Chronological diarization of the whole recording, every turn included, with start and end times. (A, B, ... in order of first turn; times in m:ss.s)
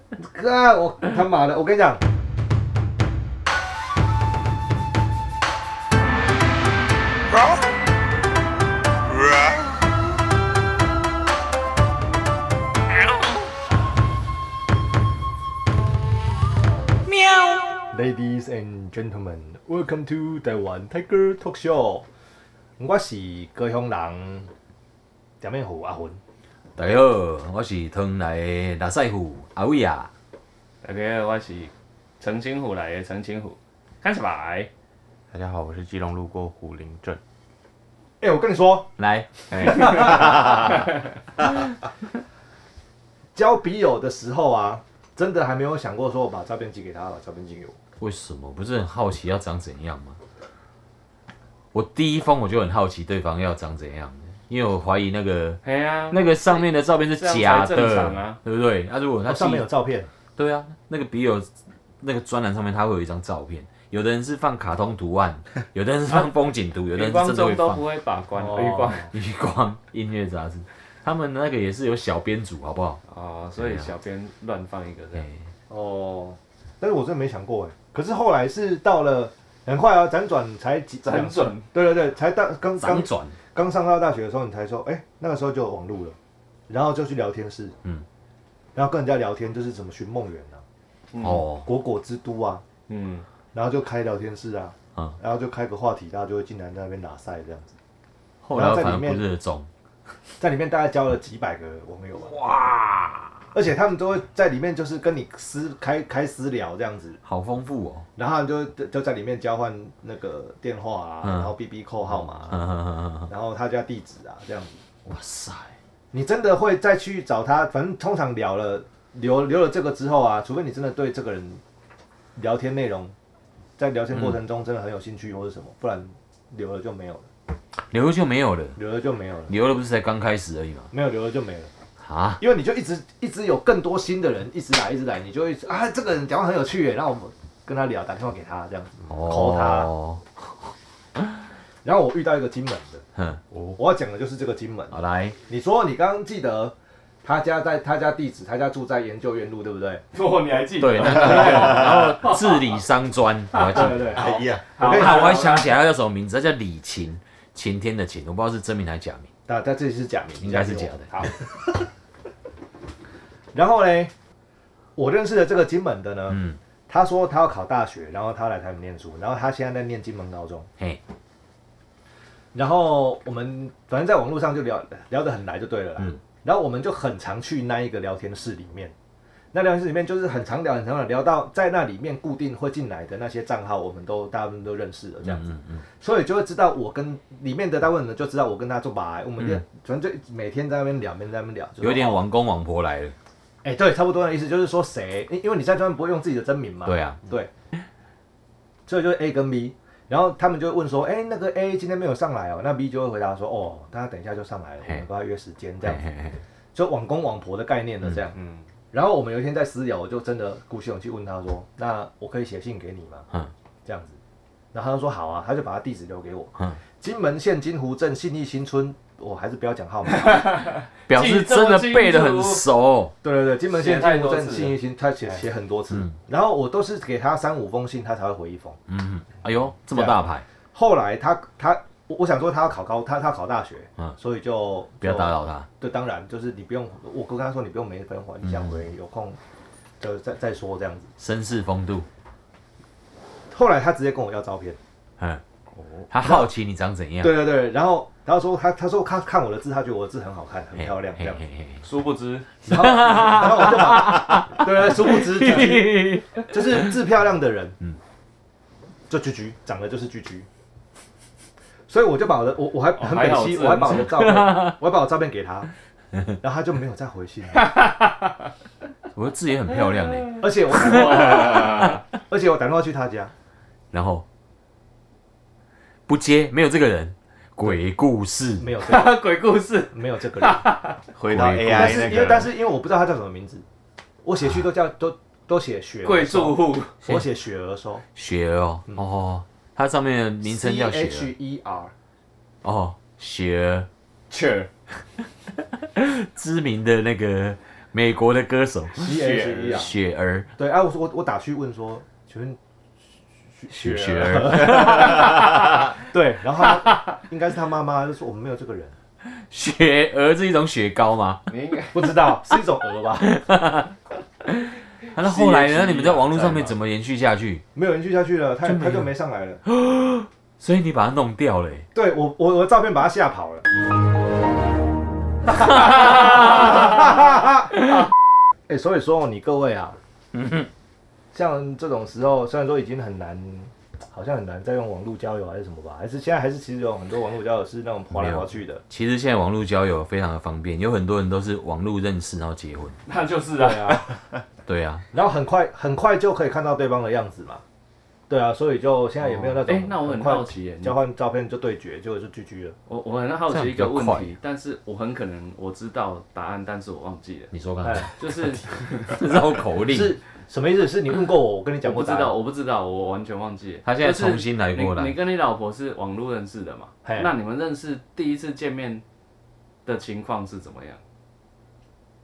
0:00.2-0:02.0 A
0:17.2-0:17.6 B
0:17.9-0:22.1 A
0:22.8-0:24.5 A
0:25.4-0:26.2 A
0:26.8-0:30.1 B
0:30.8-0:34.7 C
0:35.3-0:37.2 D
0:38.2-0:38.9 A
0:39.0-0:40.2 B
0:39.5-0:40.7 D
0:39.6-0:40.6 A
0:43.4-0:47.8 A
0:48.0-0:50.2 B
0:51.7-0:59.6 B
0:55.6-0:58.4 C
0:59.3-1:00.1 A
1:00.4-1:01.5 B
1:02.0-1:07.8 B
1:06.9-1:09.1 C
1:08.4-1:09.1 A
1:09.1-1:13.0 B
1:13.1-1:15.3 C
1:13.6-1:13.9 B
1:15.7-1:26.2 A
1:21.0-1:21.7 C
1:22.8-1:23.4 B
1:26.7-1:27.8 A
1:28.8-1:30.6 A
1:31.1-1:31.4 C
1:31.2-1:31.7 B
1:31.6-1:32.6 A
1:32.9-1:33.2 C
1:33.5-1:37.7 A
1:38.4-1:39.7 B
1:38.5-1:39.2 A
1:40.4-1:42.4 A
1:42.2-1:43.4 B
1:43.5-1:47.2 A
1:47.2-1:48.1 B
1:48.2-1:52.6 A
1:51.2-1:51.5 B
1:52.5-1:53.3 B
1:53.3-1:54.8 A
1:55.1-1:55.8 B
1:56.1-2:01.6 A
2:02.4-2:03.1 A
2:03.8-2:07.3 A
2:07.8-2:08.8 B
2:08.8-2:09.5 A
2:09.5-2:10.9 B
2:10.9-2:11.7 A
2:12.0-2:12.4 B
2:12.4-2:19.9 A
2:19.1-2:20.2 B
2:21.8-2:23.0 A
2:23.2-2:23.4 B
2:23.8-2:25.0 A
2:24.9-2:25.4 B
2:25.5-2:30.0 A
2:30.1-2:32.8 C
2:30.8-2:34.2 B
2:31.0-2:31.9 A
2:33.5-2:35.7 C
2:33.7-2:35.4 A
2:34.1-2:34.7 D
2:34.8-2:39.3 B
2:39.5-2:41.7 A
2:40.4-2:41.1 B
2:43.5-2:44.1 A
2:45.0-2:50.7 A
2:46.3-2:46.6 B
2:52.5-2:58.9 A
2:59.5-3:12.2 A
3:05.3-3:05.8 B
3:11.8-3:13.2 B
3:13.6-3:17.5 A
3:16.8-3:17.2 B
3:18.9-3:26.0 A
3:25.8-3:26.4 B
3:26.7-3:28.4 A
3:28.9-3:33.3 A
3:33.8-3:34.2 A
3:34.7-3:40.4 A
3:40.1-3:42.6 C
3:41.1-3:43.1 B
3:43.2-3:48.8 A
3:43.7-3:44.8 C
3:48.9-3:50.4 B
3:49.9-3:50.2 A
3:50.7-3:59.4 A
3:55.0-3:55.7 B
3:58.5-3:58.8 B
4:00.0-4:01.1 A
4:01.2-4:02.1 B
4:03.5-4:04.8 A
4:05.8-4:06.0 C
4:06.1-4:07.5 B
4:06.2-4:06.5 A
4:07.2-4:11.4 A
4:10.8-4:11.8 B
4:11.8-4:12.5 C
4:12.7-4:17.8 A
4:12.7-4:16.9 B
4:19.1-4:20.5 A
4:21.9-4:25.7 A
4:23.0-4:24.1 C
4:24.3-4:24.7 B
4:26.4-4:27.7 A
4:27.7-4:28.0 C
4:29.1-4:31.8 B
4:30.4-4:33.3 A
4:31.0-4:31.8 C
4:33.9-4:34.2 B
4:36.1-4:38.7 B
4:38.6-4:39.2 A
4:38.8-4:41.0 C
4:39.9-4:40.6 A
4:41.2-4:42.5 D
4:41.3-4:42.1 B
4:41.4-4:43.6 A
4:44.2-4:48.0 A
4:46.0-4:47.0 C
4:48.2-4:51.3 B
4:50.4-4:51.9 A
4:52.6-4:53.9 B
4:54.3-4:54.7 C
4:55.9-5:00.5 B
4:59.0-4:59.9 A
4:59.2-4:59.8 C
5:00.6-5:02.6 A
5:03.6-5:09.0 A
5:03.7-5:05.9 B
5:09.3-5:11.4 B
5:11.5-5:12.1 C
5:11.9-5:13.3 A
5:13.2-5:13.9 B
5:14.5-5:17.6 B
5:15.2-5:16.7 A
5:17.8-5:19.6 A
5:18.6-5:19.1 B
5:19.7-5:21.9 B
5:22.0-5:23.7 A
5:25.5-5:27.8 A
5:28.7-5:30.0 A
5:30.4-5:30.7 B
5:31.3-5:38.8 A
5:38.1-5:43.0 B
5:43.1-5:44.2 C
5:43.6-5:44.0 A
5:44.7-5:45.0 B
5:45.1-5:47.6 A
5:48.3-5:52.8 A
5:49.2-5:51.0 C
5:52.9-5:57.5 C
5:53.5-5:54.4 B
5:57.5-5:58.1 B
5:57.8-5:58.1 A
5:58.2-5:59.2 C
5:58.9-6:00.2 B
5:59.8-6:02.4 A
6:01.8-6:09.0 C
6:03.8-6:05.2 B
6:07.0-6:07.3 A
6:09.9-6:11.0 C